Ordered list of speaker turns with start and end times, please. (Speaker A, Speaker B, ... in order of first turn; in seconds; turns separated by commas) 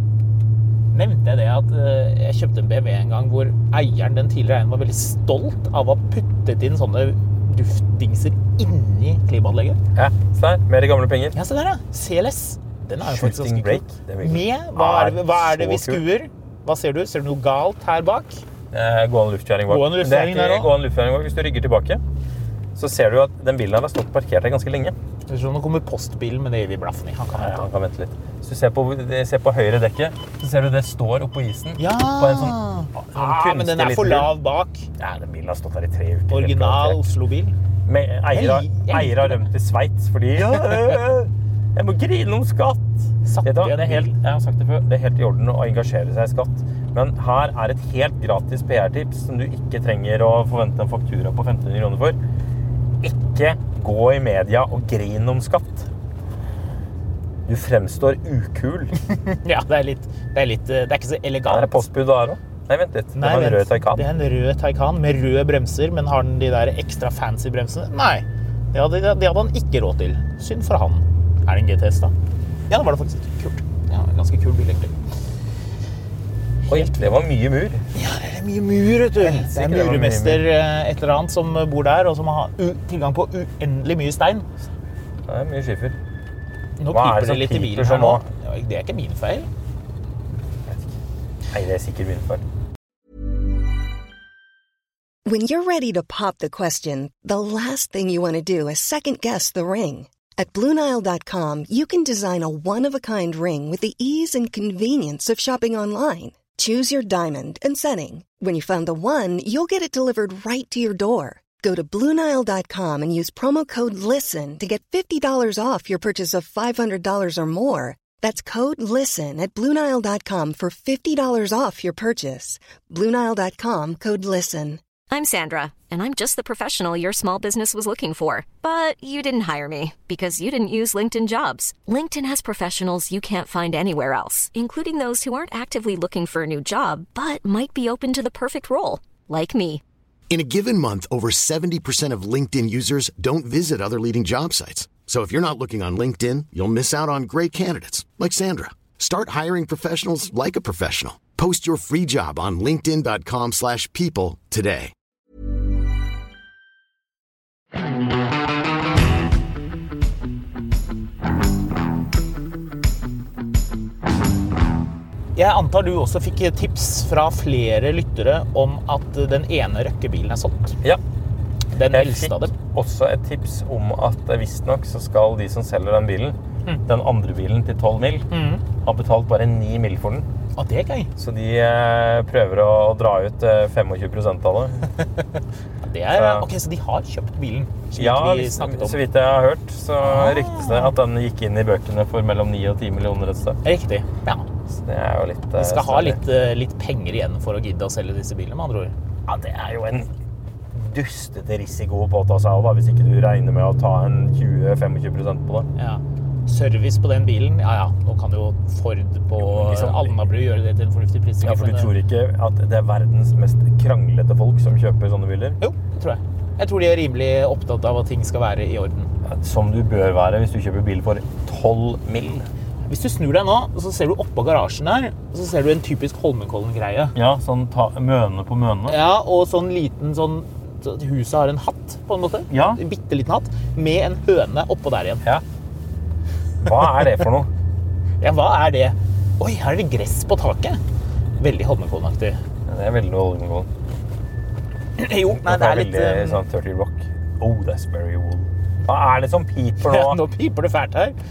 Speaker A: 0.9-9.8, Speaker B: 9.9-11.4, Speaker A: 11.3-18.4, Speaker B: 13.0-16.0, Speaker B: 18.7-22.0, Speaker A: 19.7-20.7, Speaker B: 22.8-25.0, Speaker A: 25.3-27.7, Speaker B: 27.3-34.3, Speaker A: 31.8-34.9, Speaker B: 35.0-37.0, Speaker A: 36.3-37.5, Speaker B: 37.9-52.2, Speaker A: 38.3-39.5, Speaker A: 40.4-41.0, Speaker A: 43.2-44.2, Speaker B: 53.0-55.9, Speaker B: 57.5-59.0, Speaker A: 59.2-61.9, Speaker B: 61.5-64.1, Speaker A: 63.2-72.1, Speaker A: 72.7-75.0, Speaker B: 76.7-77.9, Speaker A: 77.9-84.5, Speaker B: 79.2-80.5, Speaker B: 85.3-86.0, Speaker A: 86.8-89.5, Speaker B: 86.9-88.2, Speaker B: 90.7-90.9, Speaker B: 91.5-92.4, Speaker C: 95.3-124.8, Speaker D: 125.1-139.8, Speaker E: 140.3-154.9, Speaker A: 165.4-170.8, Speaker A: 171.7-172.5, Speaker B: 171.9-180.3, Speaker A: 178.3-178.6, Speaker A: 180.6-181.1, Speaker B: 181.2-184.9, Speaker A: 185.8-189.0, Speaker B: 186.1-186.5, Speaker B: 188.0-193.6, Speaker A: 190.0-190.9, Speaker A: 193.6-194.5, Speaker B: 194.7-196.2, Speaker A: 195.6-198.9, Speaker B: 199.3-200.1, Speaker B: 200.7-205.7, Speaker A: 205.8-211.9, Speaker B: 209.4-210.2, Speaker B: 211.4-215.6, Speaker A: 215.6-219.1, Speaker B: 219.2-222.5, Speaker A: 222.9-227.2, Speaker B: 227.1-229.0, Speaker A: 228.9-235.2, Speaker B: 232.5-232.8, Speaker B: 236.6-237.5, Speaker A: 238.2-240.8, Speaker A: 241.4-242.4, Speaker B: 242.7-243.7, Speaker A: 245.0-246.4, Speaker B: 245.3-250.2, Speaker A: 249.8-251.2